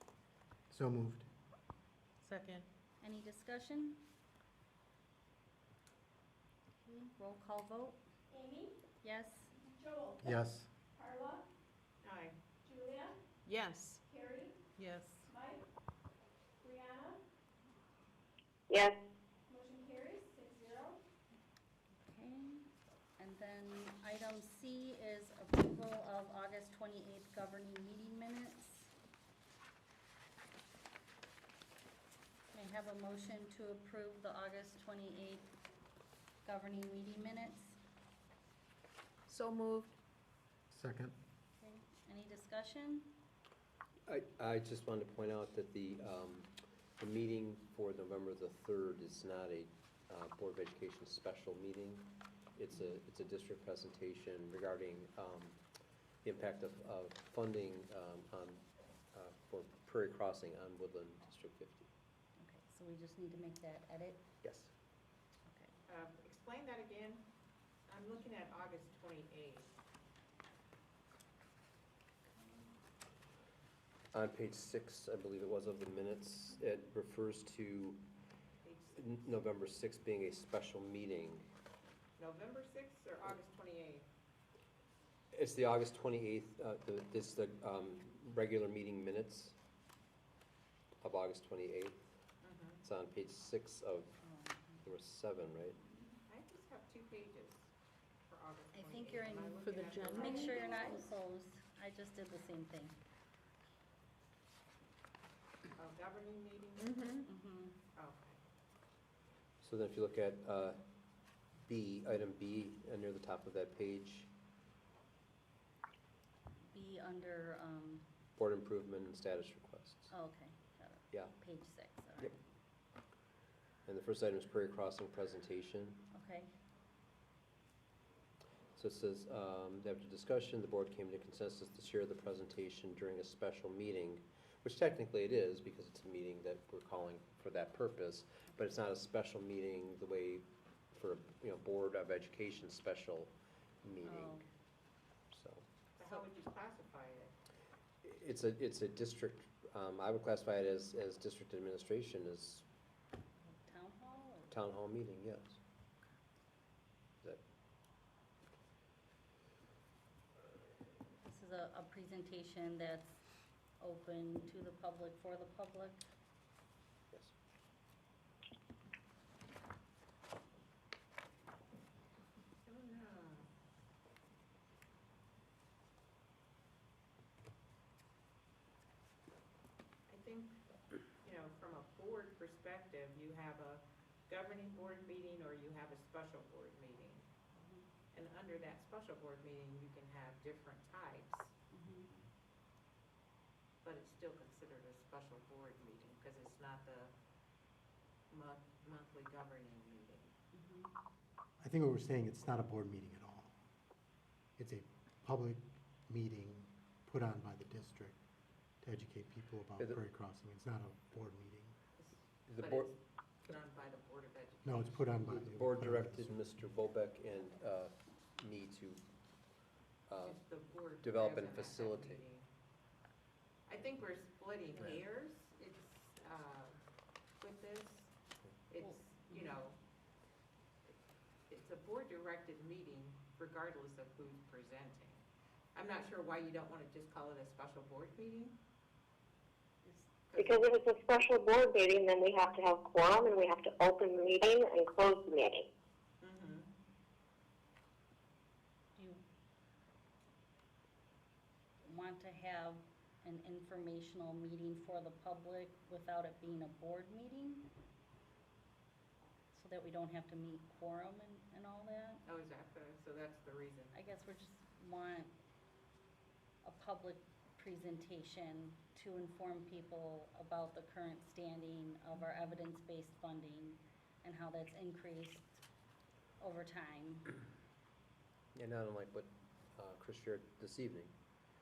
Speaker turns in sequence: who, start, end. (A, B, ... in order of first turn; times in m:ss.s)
0:00.7-0:01.3 A
0:02.2-0:02.7 B
0:03.0-0:04.0 C
0:06.8-0:08.0 C
0:09.0-0:09.5 C
0:10.2-0:10.7 A
0:12.0-0:12.4 D
0:12.7-0:13.1 E
0:13.5-0:14.0 B
0:14.1-0:14.5 E
0:14.8-0:15.3 B
0:16.6-0:17.2 E
0:18.7-0:19.0 F
0:19.5-0:20.9 E
0:22.0-0:22.7 C
0:23.2-0:28.9 C
0:32.5-0:35.5 C
0:36.4-0:37.8 C
0:39.3-0:39.9 B
0:40.7-0:41.2 A
0:41.6-0:43.2 C
0:44.1-0:55.6 G
0:56.2-1:01.9 G
1:02.4-1:04.3 C
1:04.4-1:04.7 G
1:05.5-1:05.8 C
1:05.9-1:07.3 D
1:07.9-1:09.7 D
1:12.3-1:12.7 C
1:14.1-1:18.0 G
1:18.7-1:21.5 G
1:22.2-1:24.1 D
1:25.3-1:29.6 G
1:31.0-1:32.1 G
1:32.4-1:32.8 D
1:32.8-1:34.2 G
1:34.2-1:34.8 C
1:34.8-1:35.8 G
1:36.3-1:37.7 D
1:38.3-1:40.3 D
1:38.7-1:43.0 C
1:39.0-1:40.1 G
1:39.6-1:40.3 B
1:45.8-1:46.9 D
1:46.8-1:47.3 B
1:47.2-1:47.8 C
1:48.0-1:48.4 D
1:49.6-1:50.8 G
1:51.6-1:54.3 G
1:56.7-1:58.1 C
1:58.4-2:00.1 G
2:00.1-2:02.4 C
2:03.9-2:06.0 G
2:06.1-2:06.5 C
2:08.8-2:24.3 G
2:24.0-2:24.5 C
2:25.3-2:25.7 G
2:26.0-2:27.3 D
2:28.0-2:32.7 G
2:33.4-2:34.6 C
2:34.5-2:35.6 G
2:41.2-2:43.2 C
2:43.8-2:46.1 C
2:52.7-2:53.5 D
3:00.1-3:00.6 D
3:01.2-3:07.3 D
3:07.6-3:07.8 C
3:08.1-3:11.5 D
3:11.7-3:12.1 C
3:13.8-3:17.1 D
3:18.3-3:20.3 D
3:20.5-3:20.9 C
3:21.6-3:23.6 A
3:24.6-3:28.2 A
3:28.8-3:31.8 A
3:32.0-3:32.9 D
3:32.5-3:33.0 G
3:33.5-3:34.7 D
3:34.6-3:36.4 A
3:35.3-3:39.0 G
3:40.1-3:42.3 G
3:40.2-3:42.5 D
3:43.7-3:46.8 D
3:44.8-3:45.1 G
3:47.4-3:48.1 D
3:48.7-3:49.8 D
3:48.8-3:49.5 C
3:51.5-3:55.2 D
3:55.8-3:58.6 D
4:00.4-4:05.7 F
4:06.2-4:06.7 D
4:09.0-4:09.2 C
4:11.8-4:17.7 C
4:19.5-4:22.2 C
4:22.2-4:23.9 D
4:23.9-4:25.3 C
4:26.6-4:35.6 C
4:36.4-4:37.4 C
4:38.6-4:41.1 G